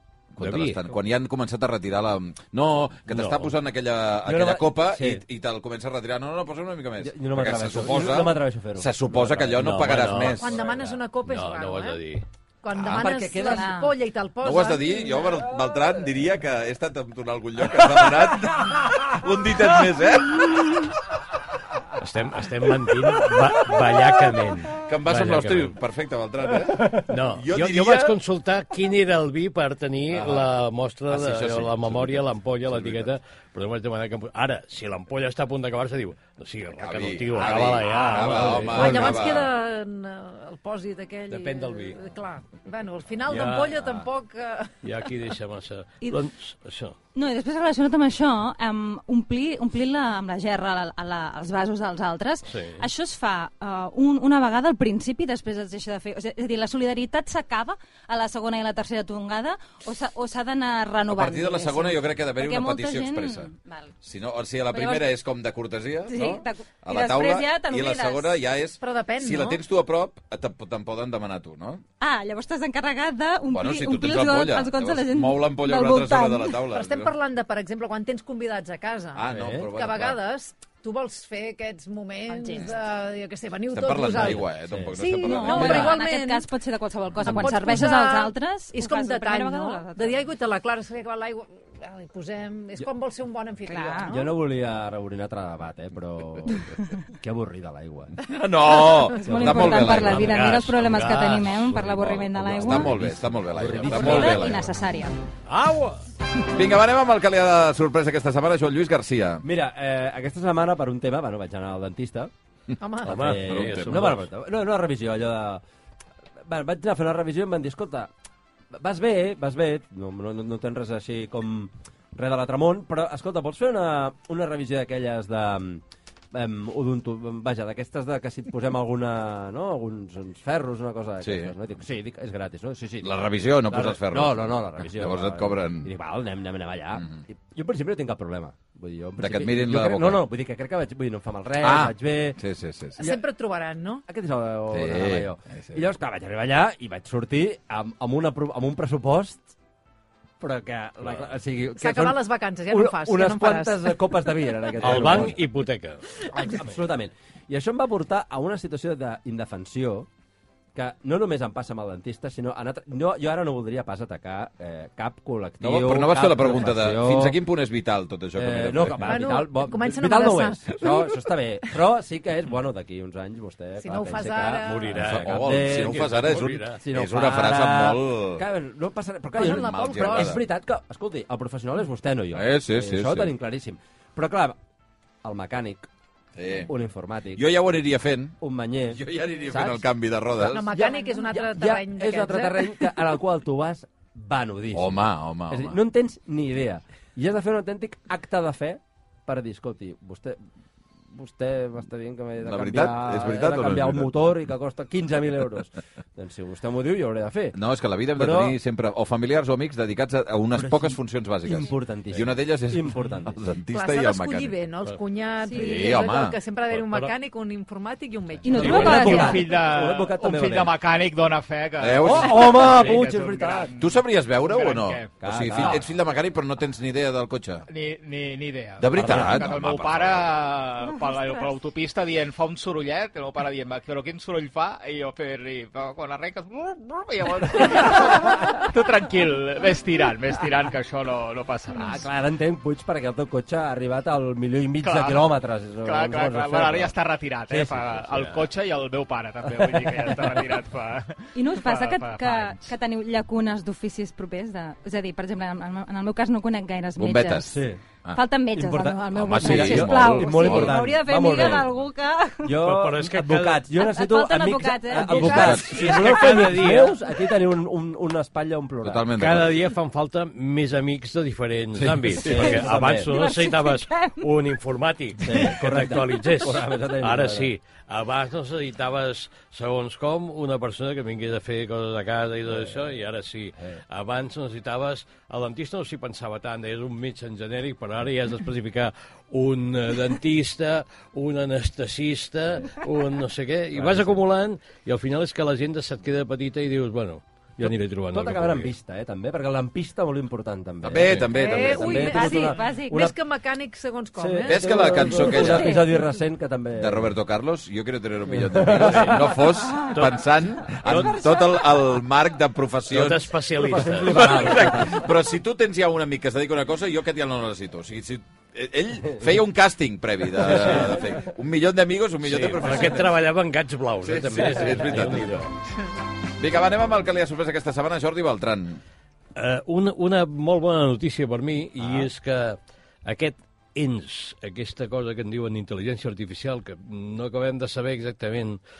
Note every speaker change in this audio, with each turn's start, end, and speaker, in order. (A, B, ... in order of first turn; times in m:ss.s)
0:00.3-0:10.6 A
0:00.4-0:00.8 B
0:03.1-0:03.5 B
0:04.2-0:05.2 C
0:07.0-0:10.1 C
0:09.6-0:12.2 B
0:10.3-0:12.0 D
0:12.6-0:15.2 D
0:12.7-0:13.7 C
0:13.3-0:13.9 E
0:14.4-0:20.9 A
0:22.0-0:25.8 B
0:24.8-0:28.1 A
0:26.9-0:39.2 B
0:30.1-0:30.5 A
0:31.1-0:33.1 A
0:36.8-0:39.5 A
0:38.6-0:44.8 D
0:41.3-0:42.0 B
0:43.3-0:44.0 B
0:44.8-0:47.0 B
0:47.1-1:03.9 E
0:52.5-0:52.9 B
1:01.1-1:03.5 A
1:04.0-1:11.8 A
1:04.7-1:05.1 E
1:06.1-1:08.4 E
1:08.8-1:09.6 D
1:12.0-1:16.6 E
1:13.5-1:17.1 A
1:16.7-1:26.5 D
1:19.1-1:20.2 A
1:19.3-1:19.7 C
1:22.3-1:22.7 E
1:23.7-1:26.0 A
1:24.2-1:25.9 C
1:25.2-1:30.2 E
1:27.2-1:34.3 D
1:33.7-1:34.1 E
1:34.1-1:38.1 C
1:38.2-1:40.5 A
1:38.7-1:39.0 D
1:38.9-1:43.0 E
1:39.2-1:40.1 C
1:40.0-1:42.4 B
1:42.5-1:44.7 C
1:42.5-1:44.7 A
1:43.8-1:45.2 E
1:45.5-1:46.0 B
1:46.5-1:49.4 A
1:49.4-1:52.3 C
1:52.8-1:53.1 D
1:53.0-1:54.1 A
1:53.0-1:54.2 B
1:53.1-1:55.6 C
1:56.4-1:58.1 C
1:58.7-2:22.4 C
2:11.2-2:11.5 A
2:13.0-2:15.9 A
2:19.2-2:20.2 A
2:21.6-2:23.0 A
2:23.0-2:24.0 D
2:24.1-2:29.5 C
2:24.7-2:25.8 A
2:30.4-2:35.4 C
2:31.8-2:34.0 D
2:34.8-2:36.0 B
2:36.3-2:40.1 C
2:40.7-2:47.4 C
2:45.6-2:49.3 A
2:48.3-3:04.6 C
2:49.0-2:51.2 D
2:53.8-2:54.9 D
2:54.6-2:56.8 B
2:54.9-2:58.4 A
2:59.3-3:00.4 D
2:59.4-3:00.4 A
3:02.3-3:03.3 A
3:05.2-3:05.9 C
3:06.4-3:06.7 A
3:06.6-3:07.4 C
3:07.4-3:08.4 A
3:08.4-3:09.9 C
3:08.9-3:10.7 A
3:10.4-3:12.7 D
3:10.6-3:20.4 C
3:14.7-3:15.8 A
3:21.1-3:27.6 C
3:22.4-3:24.1 A
3:27.5-3:34.5 A
3:28.1-3:28.6 C
3:30.5-3:33.4 C
3:33.7-3:39.3 D
3:35.5-3:36.0 E
3:35.5-3:36.4 A
3:36.7-3:37.1 B
3:38.4-3:39.5 E
3:38.5-3:40.7 C
3:38.6-3:45.8 F
3:41.8-3:42.9 A
3:42.0-3:43.7 C
3:43.8-3:47.6 A
3:45.2-3:45.8 C
3:47.7-4:02.1 F
3:48.8-3:50.4 A
3:49.0-3:49.5 C
4:01.7-4:06.9 C
4:04.8-4:05.3 F
4:05.8-4:12.7 F
4:07.5-4:08.0 C
4:11.3-4:17.6 E
4:17.0-4:18.2 A
4:17.5-4:17.8 C
4:18.1-4:22.5 E
4:18.5-4:21.7 C
4:19.1-4:21.6 A
4:22.4-4:29.1 C
4:22.6-4:23.6 B
4:23.7-4:25.7 E
4:25.1-4:26.2 A
4:25.5-4:27.0 B
4:28.8-4:29.6 A
4:29.2-4:58.7 B
4:31.8-4:32.4 A
4:32.2-4:33.1 C
4:32.4-4:34.2 E
4:35.2-4:37.5 C
4:53.8-4:54.2 C
4:57.6-5:03.1 C
5:00.8-5:02.1 A
5:01.3-5:05.2 D
5:01.8-5:03.1 E
5:04.2-5:07.2 C
5:04.5-5:05.9 A
5:05.4-5:05.8 E
5:06.8-5:13.3 A
5:08.3-5:09.4 C
5:08.7-5:09.2 B
5:09.9-5:10.1 B
5:10.7-5:11.2 B
5:12.9-5:14.8 B
5:13.6-5:15.1 C
5:14.0-5:23.1 A
5:20.4-5:20.9 B
5:22.2-5:25.5 B
5:24.0-5:25.4 A
5:26.4-5:28.8 A
5:29.3-5:38.6 B